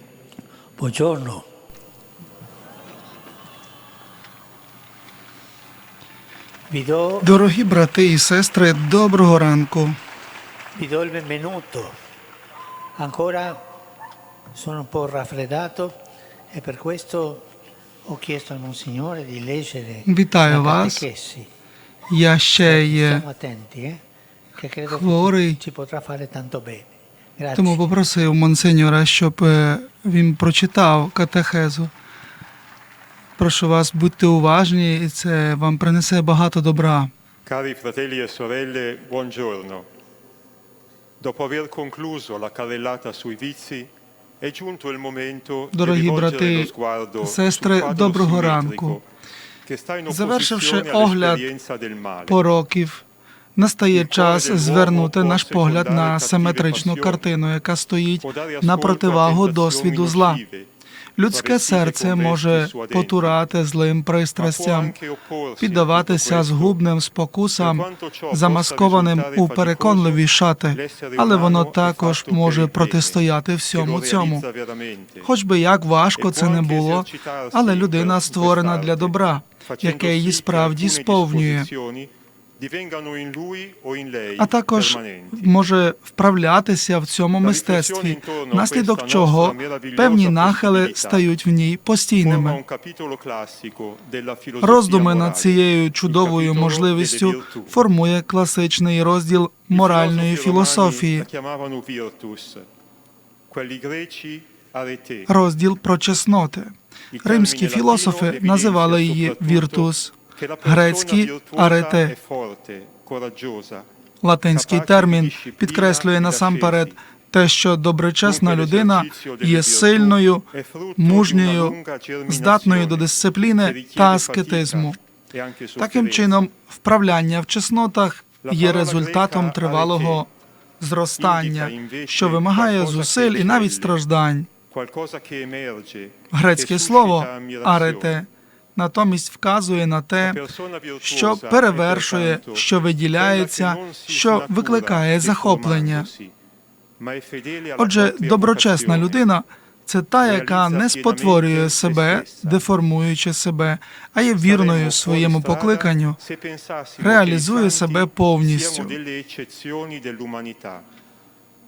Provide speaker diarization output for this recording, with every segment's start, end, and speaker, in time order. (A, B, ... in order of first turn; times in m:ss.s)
0:00.8-0:01.5 A
0:06.7-0:07.3 A
0:07.2-0:10.0 B
0:10.7-0:12.0 A
0:13.0-0:13.6 A
0:14.5-0:16.0 A
0:16.5-0:17.5 A
0:18.0-0:21.5 A
0:20.0-0:21.1 B
0:22.1-0:23.2 B
0:22.6-0:24.0 A
0:24.6-0:27.8 A
0:24.9-0:25.6 B
0:27.5-0:31.9 B
0:33.4-0:37.1 B
0:37.4-0:39.9 C
0:41.2-0:49.0 C
0:45.7-0:49.0 B
0:49.6-0:52.4 C
0:50.1-0:51.5 B
0:52.3-0:53.0 B
0:53.6-1:00.4 B
0:53.9-0:57.3 C
0:58.2-1:00.7 C
1:01.2-1:05.0 B
1:01.3-1:03.4 C
1:04.4-1:06.8 C
1:05.6-1:14.4 B
1:07.6-1:15.3 C
1:15.2-1:21.7 B
1:16.2-1:25.5 C
1:24.4-1:32.6 B
1:27.4-1:31.3 C
1:32.2-1:37.8 C
1:34.6-1:41.3 B
1:39.7-1:42.7 C
1:43.5-1:45.3 C
1:45.3-1:52.1 B
1:47.1-1:53.9 C
1:54.2-2:05.0 B
1:54.5-1:57.0 C
1:58.2-2:06.4 C
2:05.8-2:10.3 B
2:08.4-2:10.2 C
2:10.8-2:14.5 B
2:11.2-2:14.0 C
2:14.7-2:18.2 C
2:16.3-2:20.4 B
2:20.2-2:26.3 C
2:21.0-2:26.1 B
2:27.0-2:29.2 C
2:27.8-2:36.2 B
2:30.2-2:32.6 C
2:34.4-2:40.8 C
2:37.0-2:39.0 B